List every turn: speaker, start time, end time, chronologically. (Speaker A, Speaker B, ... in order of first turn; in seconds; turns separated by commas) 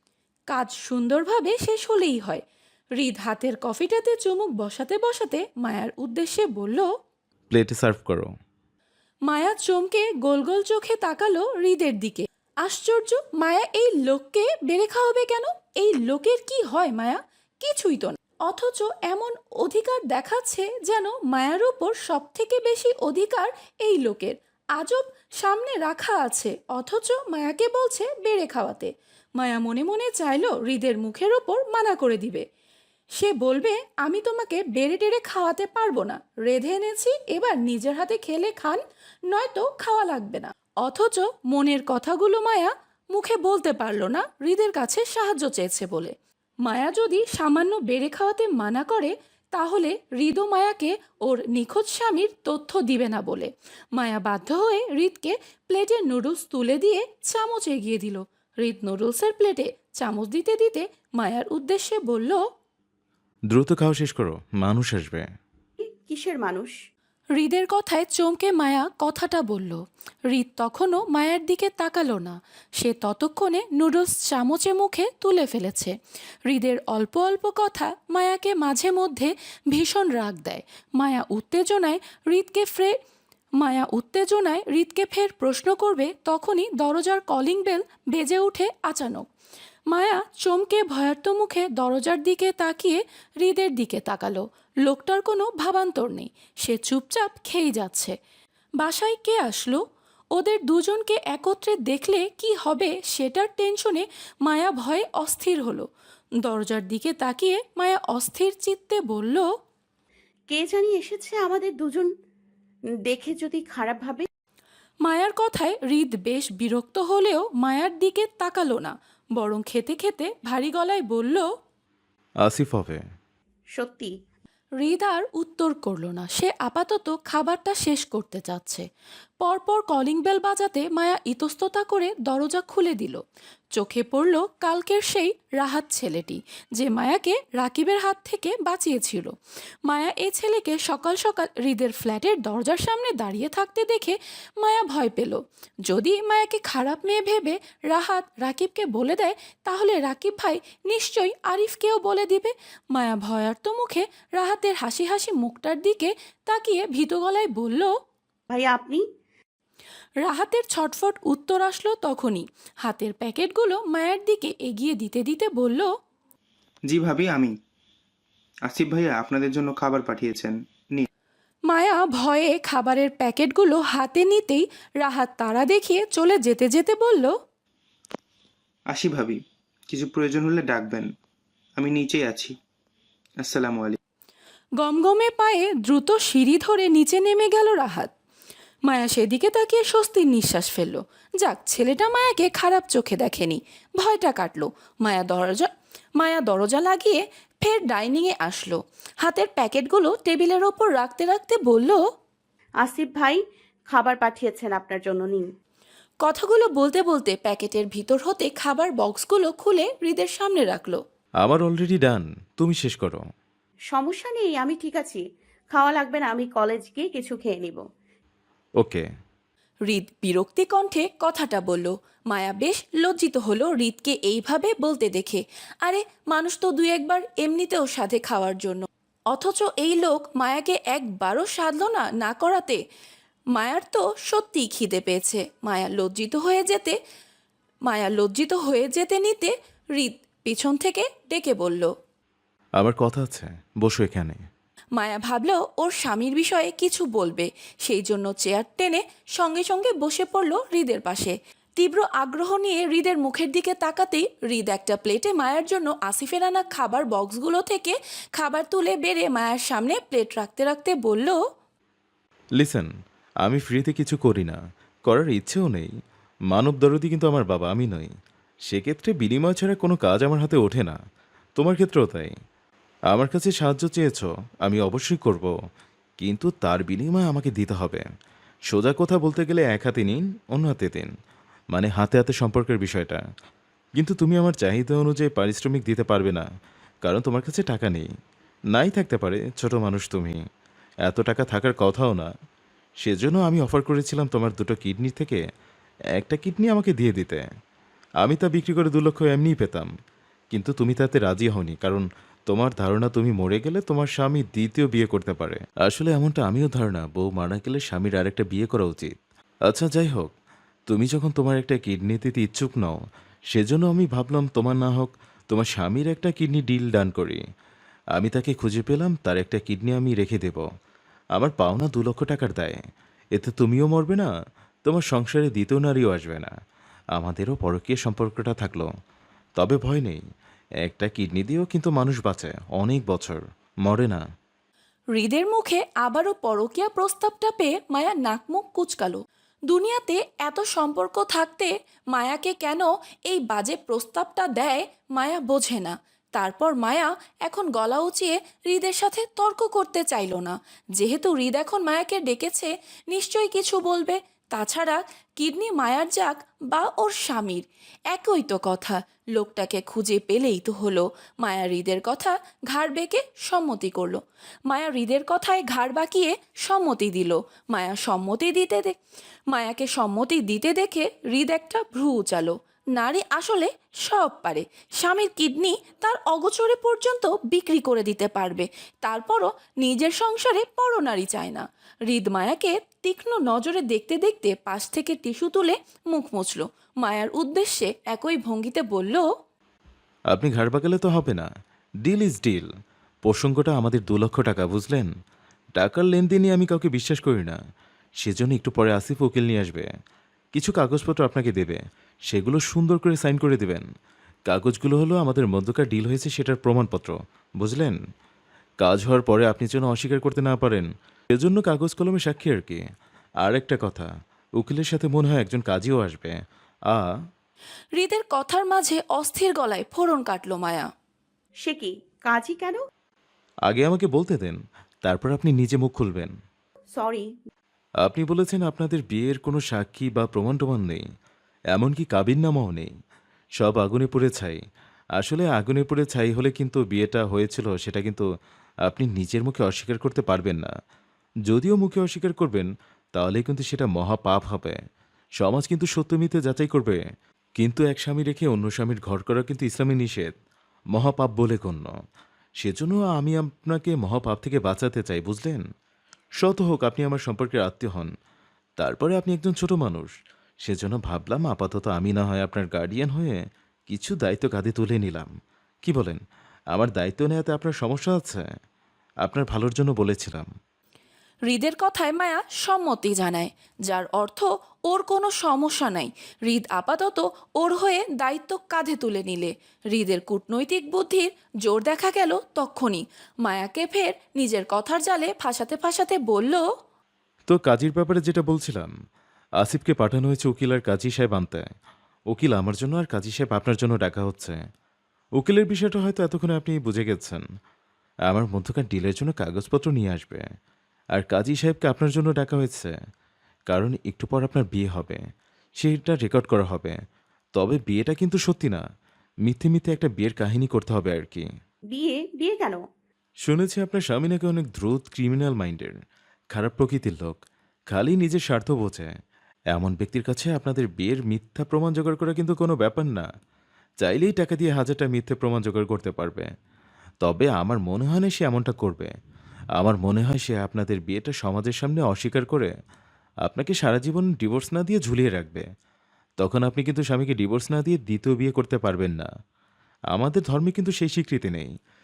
Speaker A: 0.5-2.4, Speaker A: 3.0-6.9, Speaker B: 7.5-8.3, Speaker A: 9.3-32.4, Speaker A: 33.2-62.4, Speaker B: 63.5-65.2, Speaker C: 65.8-66.7, Speaker A: 67.4-75.9, Speaker A: 76.5-83.0, Speaker A: 83.6-89.3, Speaker A: 89.9-98.1, Speaker A: 98.8-99.8, Speaker A: 100.3-105.8, Speaker A: 106.4-109.4, Speaker C: 110.5-112.1, Speaker C: 113.1-114.3, Speaker A: 115.0-121.4, Speaker B: 122.4-123.0, Speaker C: 123.8-124.1, Speaker A: 124.8-128.8, Speaker A: 129.4-133.2, Speaker A: 133.8-139.3, Speaker A: 139.9-157.9, Speaker C: 158.5-159.0, Speaker A: 160.2-165.9, Speaker D: 166.9-167.5, Speaker D: 168.7-171.1, Speaker A: 171.7-177.3, Speaker D: 178.9-179.4, Speaker D: 179.9-181.1, Speaker D: 181.8-182.5, Speaker D: 183.4-184.0, Speaker A: 184.8-188.1, Speaker A: 188.9-202.0, Speaker C: 202.8-203.4, Speaker C: 203.9-205.4, Speaker A: 206.2-211.0, Speaker B: 211.4-213.2, Speaker C: 213.9-217.8, Speaker B: 218.8-219.1, Speaker A: 219.9-232.8, Speaker A: 233.5-237.0, Speaker A: 237.8-241.9, Speaker B: 242.8-244.4, Speaker A: 244.9-261.4, Speaker B: 262.6-262.9, Speaker B: 263.4-264.6, Speaker B: 265.1-265.9, Speaker B: 266.5-268.1, Speaker B: 268.7-271.0, Speaker B: 271.6-272.3, Speaker B: 273.1-275.5, Speaker B: 276.2-278.0, Speaker B: 278.7-281.1, Speaker B: 281.7-283.2, Speaker B: 284.0-286.4, Speaker B: 287.0-288.1, Speaker B: 288.7-290.4, Speaker B: 291.0-292.3, Speaker B: 293.0-295.4, Speaker B: 296.1-297.4, Speaker B: 298.2-299.9, Speaker B: 300.5-309.1, Speaker B: 309.7-310.3, Speaker B: 310.9-313.0, Speaker B: 313.5-317.4, Speaker B: 318.1-320.6, Speaker B: 321.4-322.8, Speaker B: 323.3-324.3, Speaker B: 324.8-326.5, Speaker B: 327.1-328.9, Speaker B: 329.6-330.2, Speaker B: 330.8-334.2, Speaker A: 335.1-368.9, Speaker A: 369.5-389.2, Speaker B: 390.3-391.5, Speaker B: 392.0-392.7, Speaker B: 393.2-395.1, Speaker B: 395.8-397.6, Speaker B: 398.2-399.9, Speaker B: 400.5-403.9, Speaker B: 404.5-408.0, Speaker B: 408.8-412.8, Speaker B: 413.4-414.1, Speaker B: 414.6-416.4, Speaker A: 418.0-420.9, Speaker C: 421.6-422.8, Speaker B: 423.7-426.3, Speaker C: 426.9-427.3, Speaker B: 428.0-431.0, Speaker B: 431.7-432.9, Speaker B: 433.6-434.6, Speaker B: 435.2-438.2, Speaker B: 438.9-440.7, Speaker B: 441.5-444.8, Speaker B: 445.4-447.0, Speaker B: 447.6-450.3, Speaker B: 450.9-451.9, Speaker B: 452.6-455.6, Speaker B: 456.4-458.1, Speaker B: 458.8-460.1, Speaker B: 460.6-465.3, Speaker B: 465.8-466.2, Speaker B: 466.7-468.5, Speaker B: 469.2-470.5, Speaker A: 471.5-486.6, Speaker B: 487.5-488.9, Speaker B: 489.6-491.7, Speaker B: 492.3-494.6, Speaker B: 495.4-497.4, Speaker B: 498.3-500.4, Speaker B: 501.1-502.9, Speaker B: 503.7-505.2, Speaker B: 505.8-507.0, Speaker B: 507.6-508.8, Speaker B: 509.4-511.4, Speaker C: 511.9-512.8, Speaker B: 513.4-516.0, Speaker B: 516.5-517.4, Speaker B: 517.9-519.1, Speaker B: 519.7-523.2, Speaker B: 524.0-526.5, Speaker B: 527.2-529.1, Speaker B: 529.8-532.7, Speaker B: 533.4-535.7, Speaker B: 536.4-539.3, Speaker B: 540.1-541.7